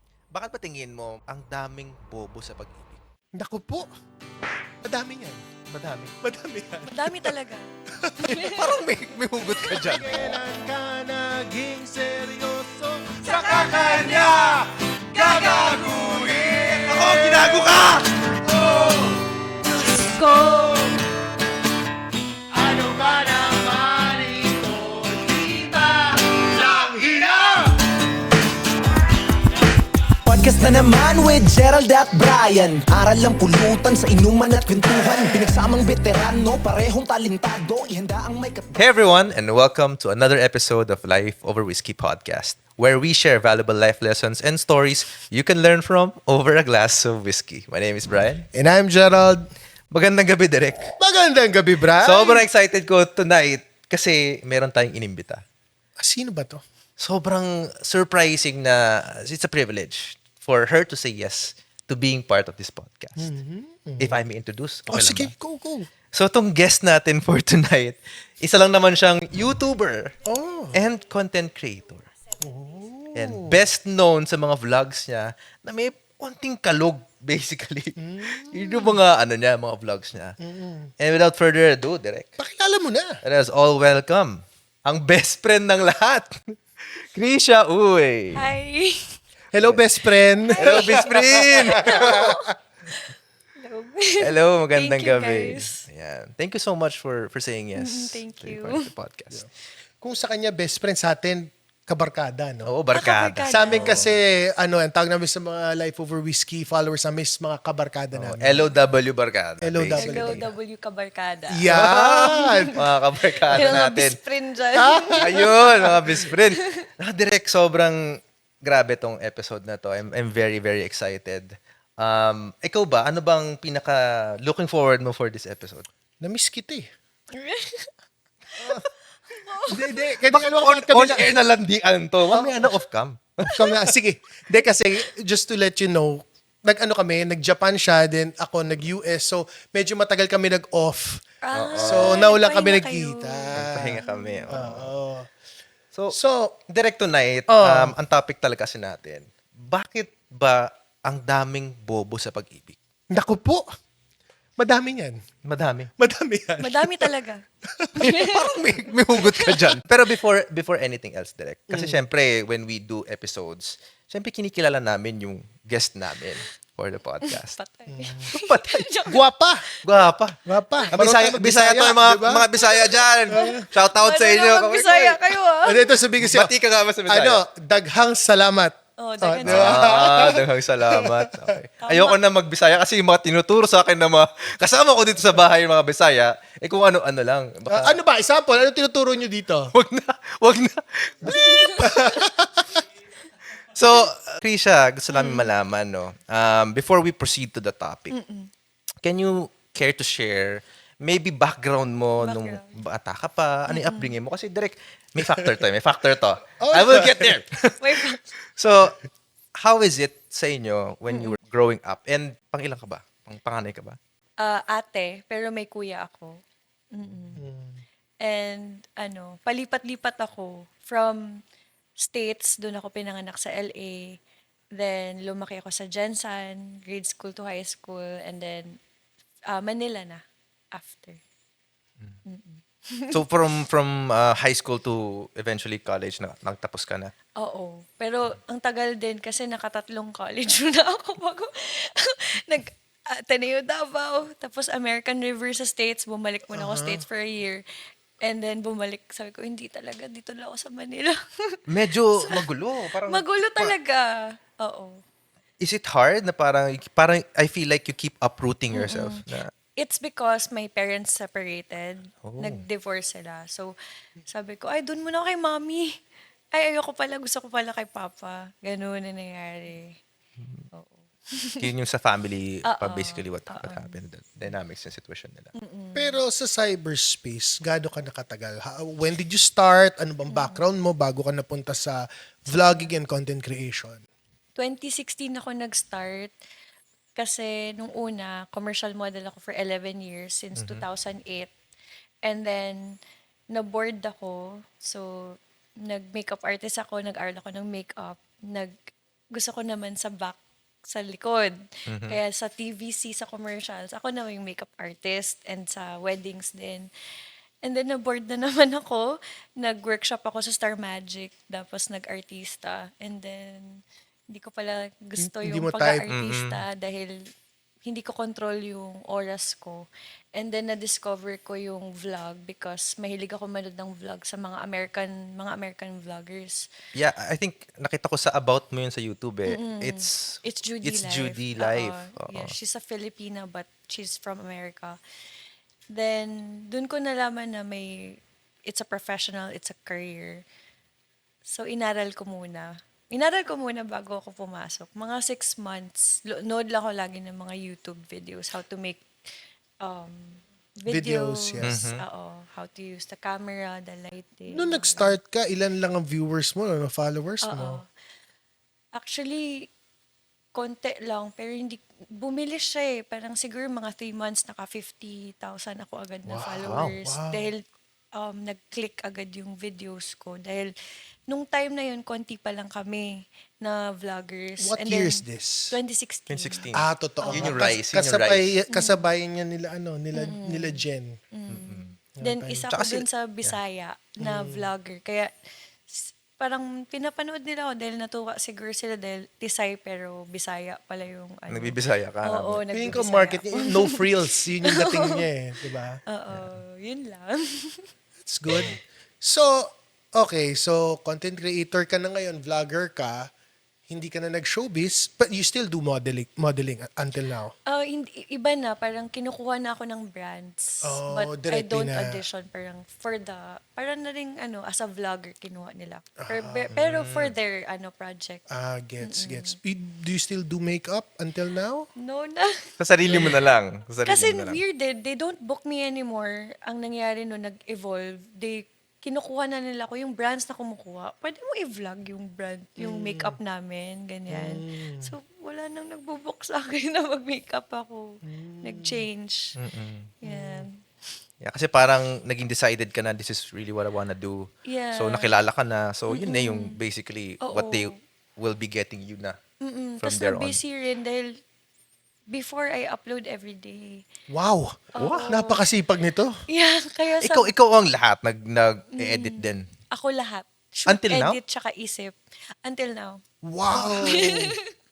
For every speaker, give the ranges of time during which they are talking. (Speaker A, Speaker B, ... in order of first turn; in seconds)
Speaker A: 0.3-3.0, 5.7-6.1, 8.3-10.2, 13.3-14.6, 15.1-18.1, 38.7-48.4, 49.9-50.9, 52.0-55.4, 57.0-63.3, 64.0-65.3, 66.1-70.2, 70.7-72.1, 73.2-80.4, 81.0-82.3, 83.2-88.4, 90.6-92.3, 94.2-99.4, 102.7-104.1, 108.1-110.4, 111.7-114.2, 115.2-125.8, 130.3-133.8, 141.5-142.2, 143.6-144.9, 146.7-152.8, 155.4-155.9, 158.0-167.6, 168.3-168.9, 169.8-170.3, 170.9-175.3, 176.2-177.4, 179.5-188.0, 189.7-192.2, 193.7-198.2, 199.0-207.8, 208.6-209.0, 209.6-214.0, 233.1-237.1, 251.7-253.7, 255.6-259.5, 262.2-262.6, 270.4-270.6, 271.6-275.5, 290.6-290.8, 301.9-302.2, 316.1-316.6, 326.9-332.5, 351.6-352.0, 366.6-366.9, 376.3-378.5, 381.5-381.9, 382.7-383.6, 391.5-393.0, 396.3-396.6, 416.7-417.3, 422.8-424.6, 439.6-440.1, 441.4-449.4, 450.0-450.6, 455.0-455.3, 457.2-459.6, 460.9-461.4
Speaker B: 3.4-3.9, 4.8-5.4, 6.2-7.3, 8.1-8.4, 9.7-17.8, 18.4-19.5, 20.0-20.9, 22.5-27.8, 48.5-49.5, 51.0-52.5, 56.0-56.6, 63.2-64.2, 64.9-65.9, 70.2-70.8, 72.4-73.6, 78.0-78.6, 80.4-80.9, 82.4-83.2, 89.5-92.4, 100.0-102.7, 103.5-108.7, 109.6-110.5, 111.5-112.8, 113.5-113.9, 114.7-116.3, 126.2-126.9, 129.7-131.3, 132.3-132.7, 133.5-141.2, 141.8-145.3, 146.1-146.6, 147.5-147.9, 153.1-153.7, 154.6-155.2, 156.0-157.1, 157.7-158.0, 161.7-162.0, 167.9-168.3, 169.1-169.6, 170.5-172.4, 173.3-173.7, 175.6-176.5, 177.1-180.4, 181.0-181.4, 187.7-189.7, 191.2-192.8, 206.6-207.4, 217.4-217.8, 246.5-247.0, 275.9-284.0, 315.2-316.1, 350.9-351.8, 354.5-357.8, 366.3-367.5, 374.6-375.8, 376.7-381.1, 382.2-382.7, 384.2-384.7, 392.7-396.0, 398.2-403.3, 403.9-407.5, 410.8-412.2, 416.2-416.7, 418.5-421.9, 423.1-423.3, 432.8-433.4, 434.3-435.1, 438.2-439.1, 440.2-440.7, 454.3-456.3, 463.4-464.5
Speaker C: 6.9-7.7, 8.3-8.8, 19.9-20.6, 78.7-79.0, 88.3-89.2, 90.4-93.0, 93.6-95.8, 97.8-98.9, 102.9-104.1, 110.0-111.7, 112.3-112.7, 113.5-116.3, 127.3-127.9, 129.4-130.0, 141.4-144.5, 156.6-157.4, 158.0-158.3, 167.2-169.2, 172.6-175.9, 179.0-180.2, 181.8-182.2, 191.3-191.9, 195.1-195.5, 198.1-198.5, 202.2-202.8, 203.7-204.1, 207.8-208.2, 211.1-211.4, 214.4-216.4, 216.9-217.4, 218.2-221.2, 222.0-224.1, 224.8-228.8, 229.5-230.2, 230.7-231.2, 232.2-233.1, 237.4-247.6, 248.2-251.6, 253.1-255.0, 258.7-259.2, 259.8-263.7, 264.3-265.9, 266.5-269.9, 270.7-271.7, 272.7-274.0, 275.6-276.2, 280.3-280.6, 282.5-282.9, 284.6-286.3, 287.2-291.5, 292.2-292.8, 293.5-298.7, 299.3-301.5, 302.1-306.9, 307.6-313.8, 314.3-317.1, 317.8-326.6, 329.5-335.0, 335.9-340.4, 341.5-349.0, 349.8-355.1, 357.4-357.8, 358.9-359.5, 360.5-367.6, 368.2-370.7, 371.3-373.1, 373.6-376.7, 377.2-377.6, 378.7-379.0, 380.1-380.8, 381.3-385.3, 385.9-394.0, 394.8-395.2, 396.1-397.9, 407.7-418.4, 419.0-419.6, 422.0-422.5, 423.0-423.3, 424.1-439.4, 440.2-440.7, 444.7-445.3, 446.1-446.8, 447.4-447.9, 449.6-451.3, 452.3-454.0, 454.9-455.6, 456.5-457.5, 459.0-463.2, 463.8-464.7
Speaker D: 30.2-38.7